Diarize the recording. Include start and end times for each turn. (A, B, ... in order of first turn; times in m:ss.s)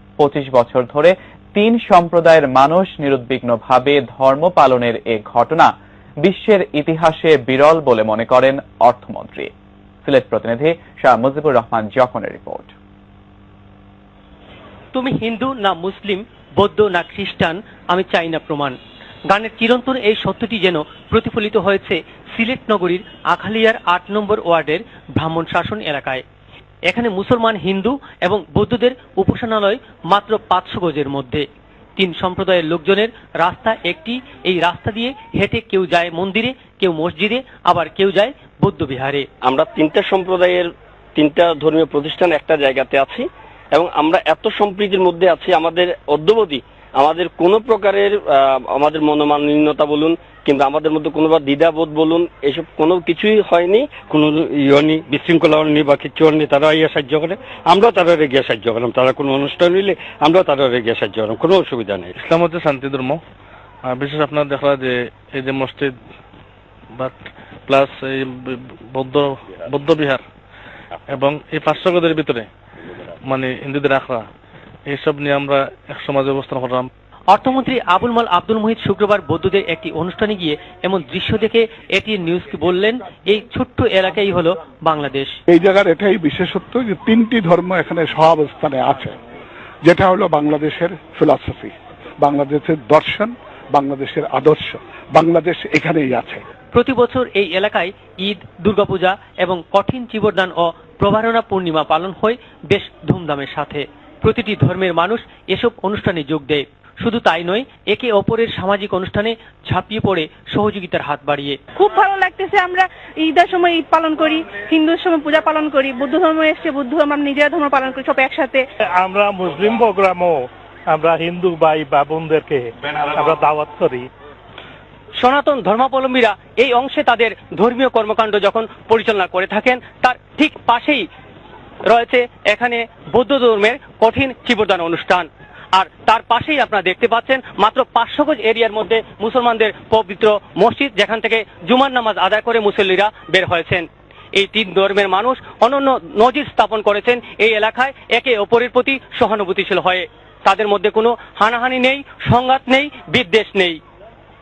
0:00.2-0:05.7 A
0:06.2-0:09.5 A
0:10.0-0:12.7 A
0:14.9-0:18.8 B
0:19.3-0:26.2 B
0:26.9-0:31.4 B
0:32.0-0:39.3 B
0:39.4-0:54.0 C
0:54.1-1:02.1 D
1:02.2-1:03.2 E
1:03.8-1:05.9 E
1:07.0-1:10.2 E
1:11.1-1:12.5 E
1:13.3-1:14.2 E
1:14.9-1:16.9 E
1:17.3-1:25.4 B
1:25.5-1:29.2 F
1:29.8-1:36.4 F
1:36.7-1:51.6 B
1:51.8-1:58.6 G
1:59.0-2:04.1 H
2:05.2-2:11.1 B
2:11.8-2:33.8 B